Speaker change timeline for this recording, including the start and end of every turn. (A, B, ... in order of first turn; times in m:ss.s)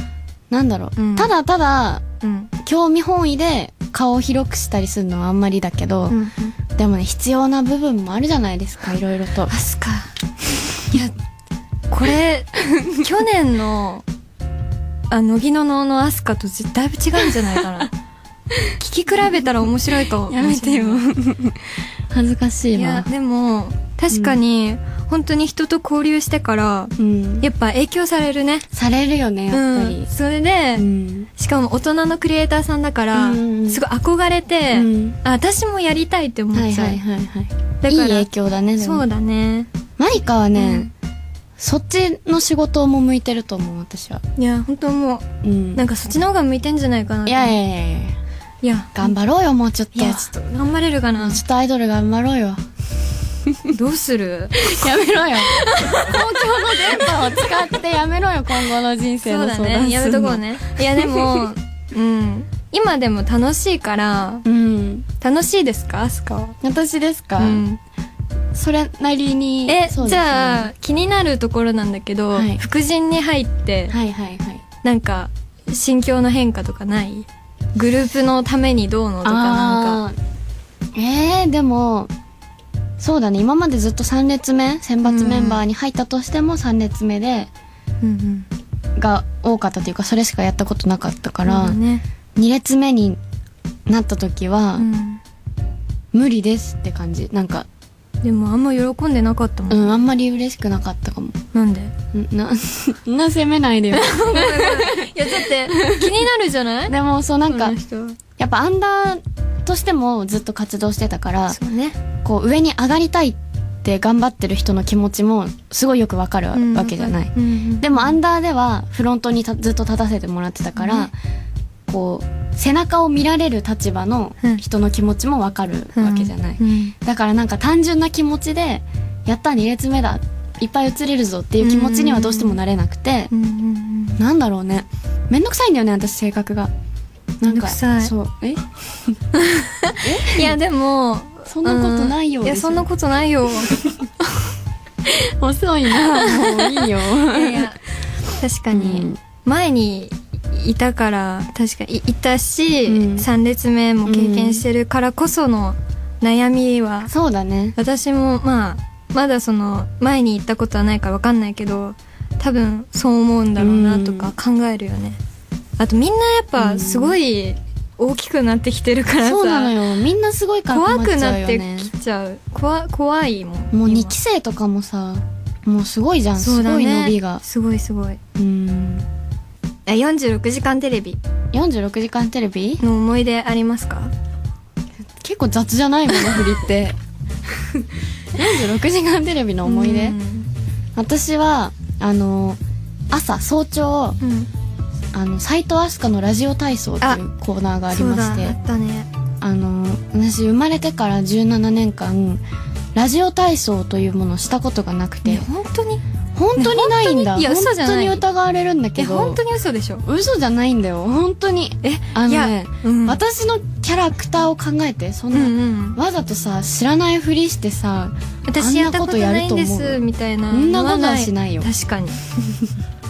0:00.5-0:02.0 A
0:01.0-0:01.3 B
0:02.2-0:02.5 B
0:02.6-0:06.2 A
0:06.1-0:06.6 B
0:06.8-0:09.5 A
0:09.5-0:10.1 B
0:10.8-0:11.2 B
0:11.9-0:14.0 B
0:15.1-0:17.9 B
0:18.8-0:21.0 B
0:20.3-0:23.1 A
0:22.7-0:28.7 B
0:24.1-0:24.4 A
0:27.0-0:27.5 A
0:28.7-0:30.1 A
0:29.5-0:30.9 B
0:30.8-0:31.3 A
0:31.4-0:37.0 B
0:33.1-0:33.8 A
0:34.7-0:35.2 A
0:36.5-0:39.1 A
0:37.8-0:39.7 B
0:40.0-0:40.9 A
0:40.6-0:40.9 B
0:41.6-0:44.2 A
0:44.4-0:47.6 B
0:45.4-0:45.8 A
0:47.3-0:48.2 A
0:48.6-0:49.1 B
0:49.0-0:50.3 A
0:49.9-0:51.4 B
0:51.2-0:52.6 A
0:53.4-0:53.8 A
0:53.7-0:57.6 B
0:54.6-1:01.5 A
0:59.2-1:04.5 B
1:04.5-1:05.1 A
1:05.2-1:06.6 B
1:06.6-1:07.6 A
1:07.4-1:07.8 B
1:08.5-1:10.7 A
1:09.7-1:14.0 B
1:12.3-1:12.6 A
1:13.9-1:14.6 A
1:14.8-1:20.0 B
1:19.2-1:20.2 A
1:21.0-1:22.1 A
1:23.0-1:27.5 A
1:25.0-1:25.6 B
1:28.0-1:28.5 B
1:29.0-1:31.8 A
1:31.5-1:32.0 B
1:32.4-1:33.2 A
1:33.9-1:34.9 A
1:34.8-1:35.2 B
1:36.1-1:37.7 A
1:38.2-1:40.0 B
1:39.7-1:41.4 A
1:41.5-1:41.9 B
1:42.1-1:46.2 A
1:43.9-1:47.0 B
1:46.9-1:47.8 A
1:47.5-1:48.2 B
1:48.4-1:51.6 A
1:51.5-1:52.0 B
1:52.2-2:01.1 A
1:56.5-1:58.2 B
2:00.8-2:01.1 B
2:01.9-2:13.3 A
2:06.0-2:06.9 B
2:11.6-2:12.6 B
2:13.3-2:14.2 B
2:14.2-2:16.7 A
2:17.4-2:19.2 A
2:17.4-2:18.1 B
2:19.3-2:23.9 B
2:20.0-2:20.6 A
2:21.5-2:22.9 A
2:23.6-2:24.0 A
2:25.1-2:27.7 A
2:25.9-2:27.8 B
2:28.4-2:37.1 B
2:28.7-2:29.2 A
2:32.9-2:33.3 A
2:34.0-2:34.6 A
2:37.1-2:37.8 A
2:37.8-2:45.2 B
2:43.6-2:44.3 A
2:45.8-2:49.8 B
2:46.6-2:47.2 A
2:49.2-2:51.9 A
2:50.7-2:54.2 B
2:53.7-2:57.4 A
2:56.4-2:58.2 B
2:58.4-2:59.1 A
2:59.9-3:01.2 B
3:01.5-3:02.8 A
3:02.8-3:04.1 B
3:05.2-3:10.2 A
3:09.6-3:10.5 B
3:11.0-3:14.2 A
3:14.2-3:14.5 B
3:15.1-3:18.6 A
3:17.9-3:19.1 B
3:19.4-3:22.4 A
3:23.0-3:25.5 A
3:25.2-3:26.0 B
3:26.4-3:29.4 A
3:26.6-3:28.2 B
3:29.0-3:30.0 B
3:30.0-3:41.7 A
3:31.8-3:33.2 B
3:35.3-3:36.0 B
3:38.5-3:42.2 B
3:42.4-3:42.7 A